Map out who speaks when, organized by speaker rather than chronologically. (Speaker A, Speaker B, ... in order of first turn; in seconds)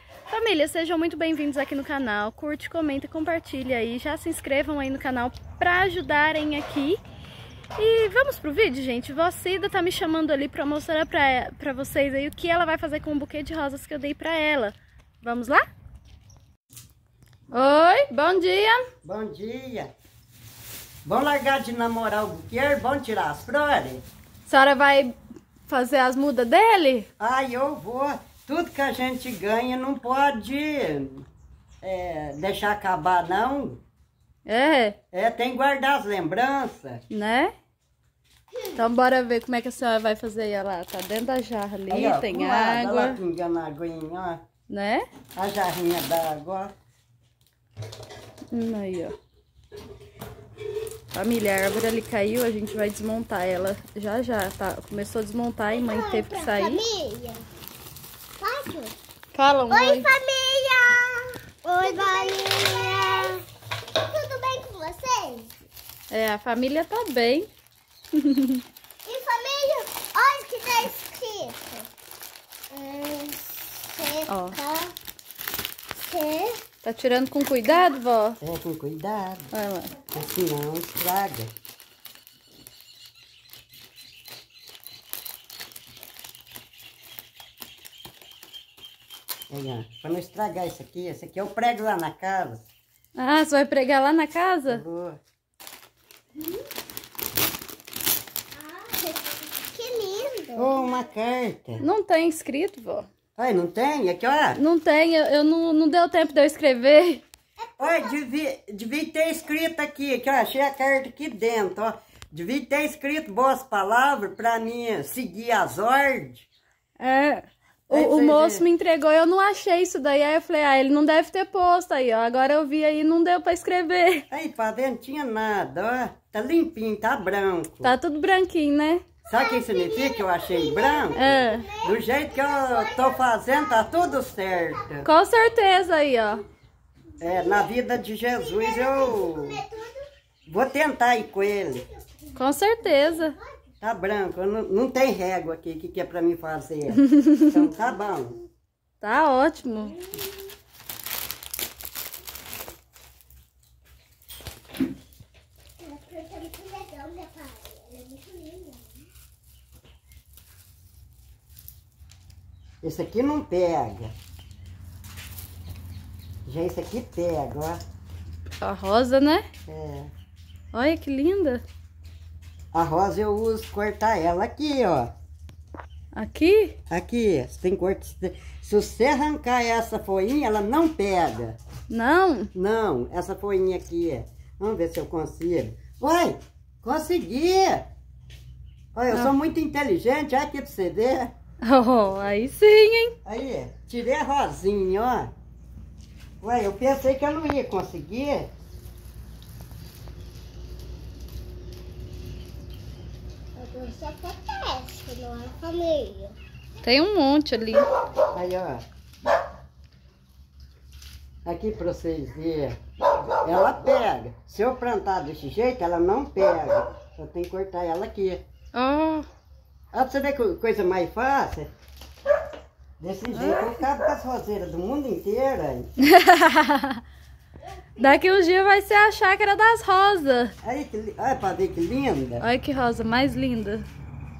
Speaker A: 0.3-7.0, 7.8-15.6, 17.5-18.8, 24.4-25.1, 25.7-27.1, 34.5-35.0, 37.1-37.5, 38.7-43.2, 44.7-45.0, 48.5-49.1, 51.1-56.8, 59.3-60.1, 66.1-67.5, 68.1-68.6, 74.3-74.6, 76.8-78.4, 79.5-80.0, 93.2-94.8, 101.8-103.1, 104.6-107.2, 117.0-124.2, 127.8-129.0, 131.1-131.7, 135.0-136.4, 142.3-143.3, 147.0-147.6, 149.0-149.9, 168.6-169.4, 170.7-171.6, 176.1-176.8, 181.9-182.5, 191.6-193.1, 206.8-207.8, 218.7-219.3, 223.3-223.7, 226.0-227.0, 228.0-230.5, 232.4-233.9
Speaker B: 19.0-19.9, 21.0-24.0, 27.2-31.3, 31.8-33.8, 35.1-37.0, 41.9-44.4, 45.4-46.7, 78.4-79.5, 80.1-81.5, 89.5-92.7, 94.7-95.2, 100.5-101.8, 103.4-104.6, 107.8-116.5, 117.9-118.6, 124.3-127.9, 129.3-135.1, 137.2-139.6, 140.4-141.8, 143.8-148.4, 162.8-164.1, 166.4-167.8, 169.7-170.1, 172.7-175.1, 176.9-181.6, 182.5-187.9, 188.9-191.3, 193.2-195.3, 196.4-198.5, 208.2-208.8, 211.4-218.4, 219.9-221.7, 223.0-225.9, 230.6-232.4
Speaker C: 55.7-57.5, 58.4-58.9, 59.7-63.4, 63.9-65.5, 69.0-71.9, 72.7-74.9, 75.9-76.6, 98.7-100.8, 129.3-131.9, 132.6-133.1, 137.2-137.6, 138.5-140.1, 155.8-159.0, 203.6-206.4